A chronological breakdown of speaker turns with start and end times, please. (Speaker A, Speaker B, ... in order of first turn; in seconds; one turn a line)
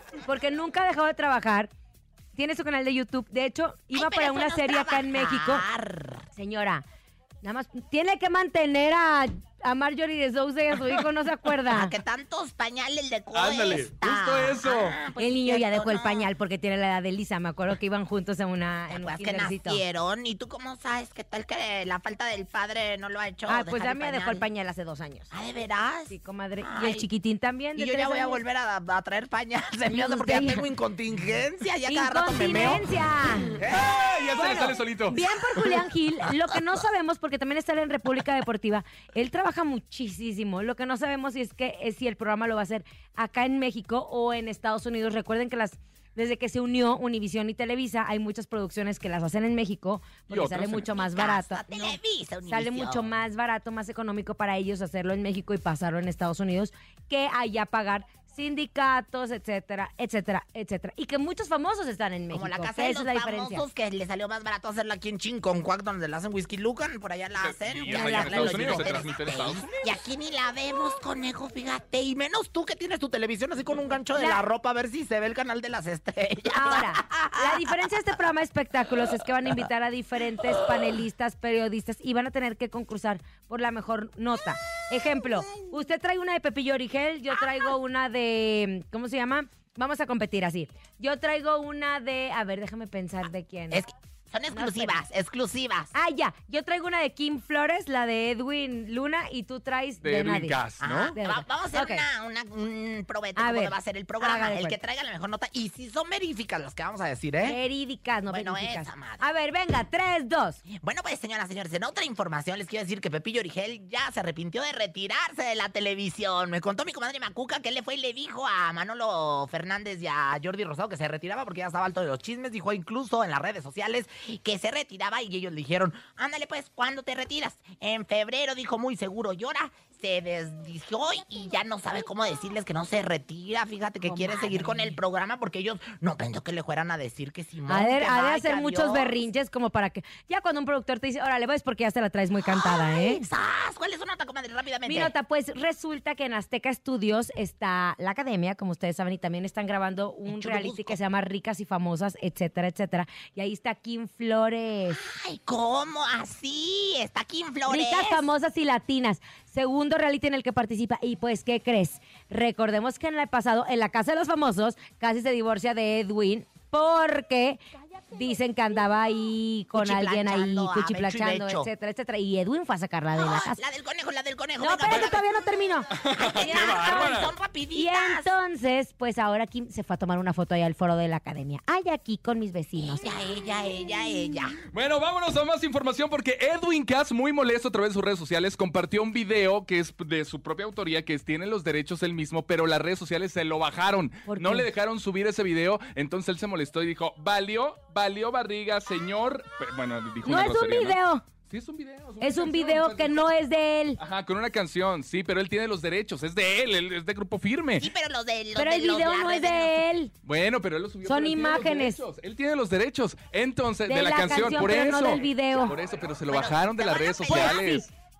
Speaker A: 0.2-1.7
Speaker A: 2.3-5.6
Speaker B: 3.9-6.2
Speaker A: 6.3-6.8
Speaker A: 7.4-11.9
Speaker B: 11.7-16.3
Speaker C: 13.3-15.0
Speaker A: 15.2-19.8
Speaker B: 18.9-24.4
Speaker A: 23.5-25.3
Speaker B: 25.3-27.1
Speaker A: 26.1-28.4
Speaker B: 27.8-32.8
Speaker A: 29.9-30.6
Speaker A: 31.9-33.6
Speaker B: 33.5-33.9
Speaker C: 33.7-35.2
Speaker A: 34.3-63.6
Speaker C: 50.3-50.9
Speaker B: 50.9-53.1
Speaker B: 62.3-77.9
Speaker C: 67.4-69.8
Speaker A: 67.9-69.0
Speaker A: 74.2-74.4
Speaker A: 76.5-93.8
Speaker B: 87.3-87.7
Speaker B: 93.7-95.9
Speaker A: 94.5-95.0
Speaker A: 95.9-100.6
Speaker C: 100.0-101.1
Speaker B: 100.8-107.6
Speaker A: 101.1-102.0
Speaker A: 103.3-104.8
Speaker A: 107.4-110.6
Speaker B: 108.3-109.2
Speaker B: 110.8-139.2
Speaker A: 134.2-134.7
Speaker A: 137.7-143.2
Speaker B: 142.4-145.1
Speaker A: 144.8-155.0
Speaker B: 150.3-150.9
Speaker B: 154.9-158.2
Speaker A: 157.7-167.6
Speaker A: 168.1-173.6
Speaker B: 169.7-171.7
Speaker B: 173.1-175.4
Speaker A: 174.6-175.9
Speaker C: 175.9-177.3
Speaker B: 176.1-178.3
Speaker A: 176.4-177.1
Speaker A: 177.7-183.0
Speaker B: 182.8-184.6
Speaker C: 184.7-203.3
Speaker A: 194.3-194.7
Speaker A: 200.2-201.2
Speaker A: 202.2-204.0
Speaker C: 204.0-207.9
Speaker B: 207.8-209.8
Speaker A: 208.6-210.1
Speaker C: 210.2-217.9
Speaker A: 211.0-212.0
Speaker A: 213.9-215.8
Speaker B: 216.3-217.8
Speaker A: 217.3-217.8